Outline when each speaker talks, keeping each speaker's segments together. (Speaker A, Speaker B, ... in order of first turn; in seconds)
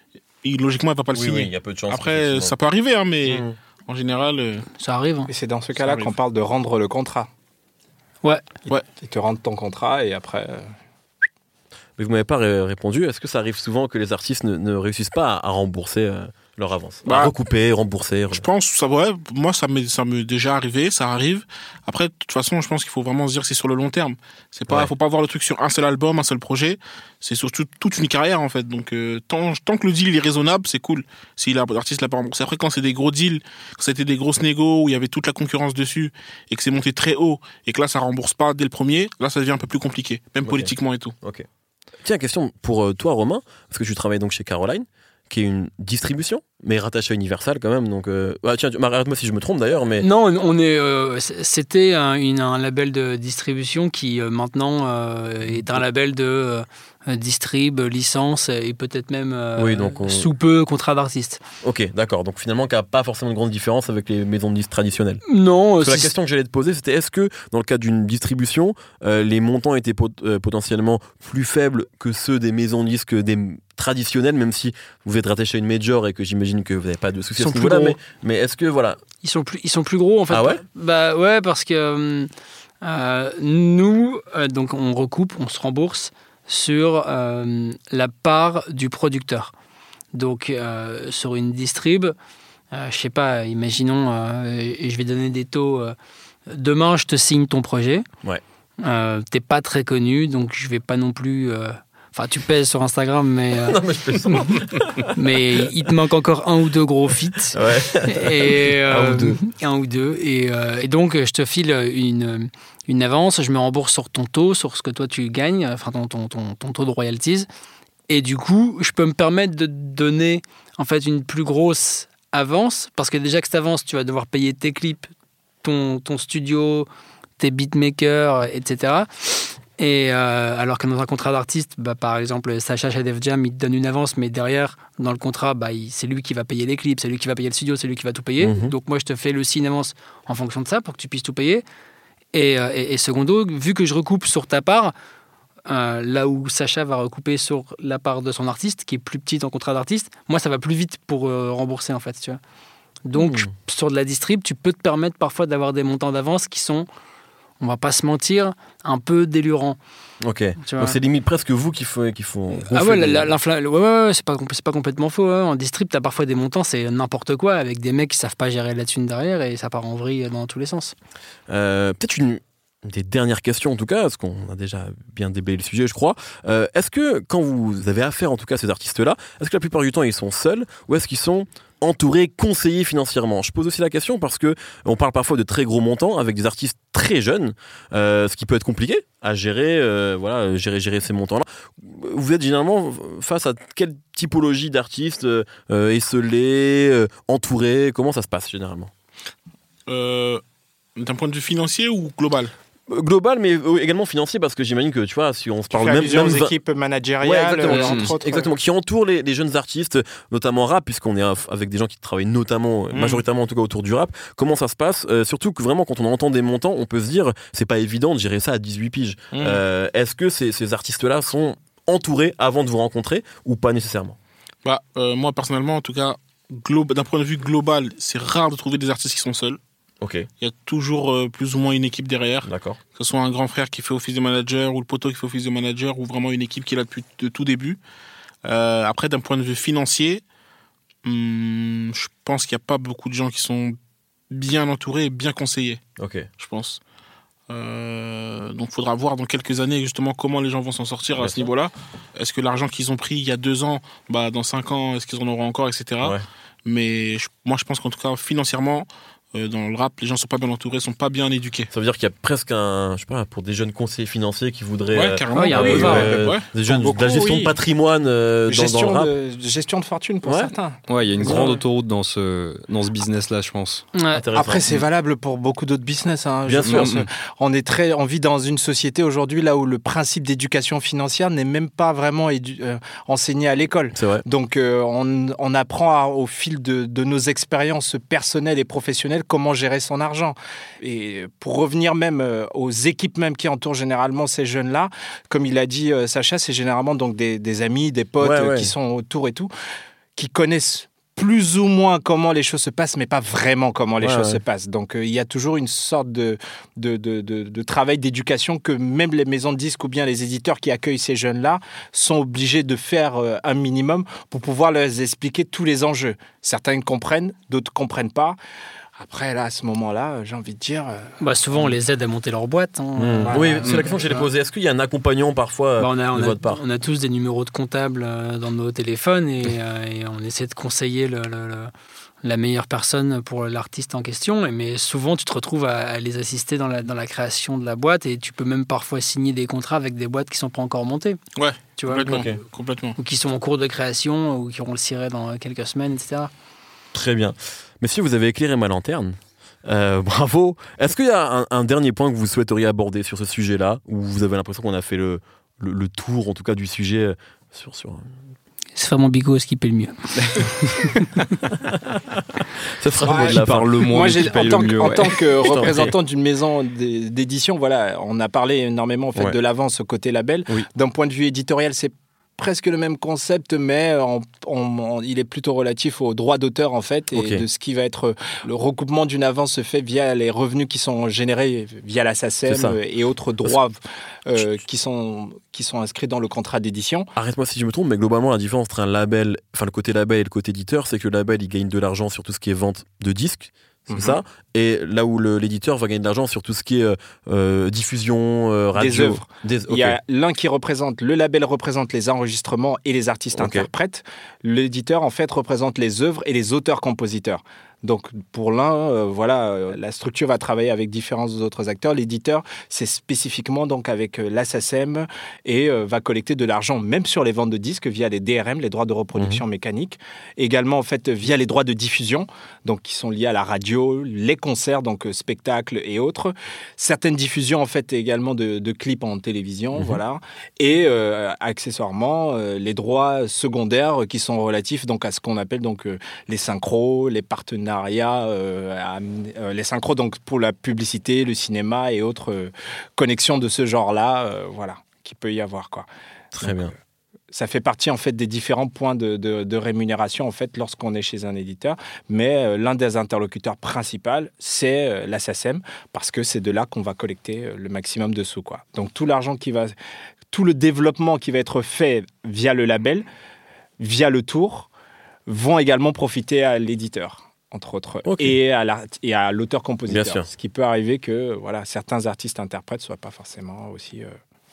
Speaker A: 0.4-4.7, 5.8-6.1, 17.1-17.3, 18.3-41.1, 199.9-200.4, 201.0-202.5, 212.9-213.2, 219.3-219.6, 224.7-229.6, 230.4-237.8, 238.4-240.2, 241.0-243.8, 244.3-245.8, 246.4-246.8, 247.5-261.7, 264.9-266.5, 341.4-343.0
Speaker B: 1.1-2.5, 3.2-3.6, 12.0-18.4, 40.5-41.5, 42.0-50.1, 55.5-55.8, 59.6-60.3, 61.6-65.2, 65.8-79.0, 80.3-80.6, 103.6-105.6, 107.5-109.4, 138.4-138.7, 153.2-153.5, 160.2-163.3, 171.5-198.9, 202.9-206.5, 207.2-224.2, 230.0-230.3, 232.4-232.8, 246.0-246.3, 251.2-251.5, 261.7-269.1, 270.2-270.5, 271.2-271.6, 274.1-274.8, 276.5-276.9, 283.9-284.2, 298.2-298.7, 304.0-304.4, 323.0-326.6, 342.1-342.4, 346.9-358.1, 361.5-364.2, 365.4-365.9, 377.1-377.5, 382.5-382.8, 387.2-400.0, 403.4-403.7, 419.1-419.4, 446.3-446.8, 468.1-468.4, 469.9-470.3
Speaker C: 4.8-5.3, 50.0-61.4, 65.3-66.1, 77.4-78.0, 79.2-82.3, 82.8-89.5, 90.1-92.1, 92.7-96.0, 96.5-98.1, 98.8-104.6, 105.1-117.5, 118.1-125.1, 125.6-126.9, 127.4-141.6, 142.3-144.9, 145.7-152.4, 153.1-156.9, 157.6-159.8, 160.6-161.0, 162.6-170.9, 265.3-266.1, 273.9-274.2, 321.2-324.3, 325.8-331.7, 332.2-341.2, 341.8-342.1, 343.0-346.3, 358.8-361.1
Speaker D: 5.3-7.3, 9.0-10.7, 205.7-208.5, 266.7-267.6, 268.5-271.5, 274.4-299.5, 300.2-318.4, 319.0-321.7, 323.3-323.5, 363.0-387.1, 393.9-394.2, 398.8-445.9, 446.4-446.7, 447.3-459.7, 460.3-463.1, 463.8-464.7, 465.3-474.1
Speaker E: 207.7-208.1, 270.9-273.9, 276.6-277.1, 363.1-365.2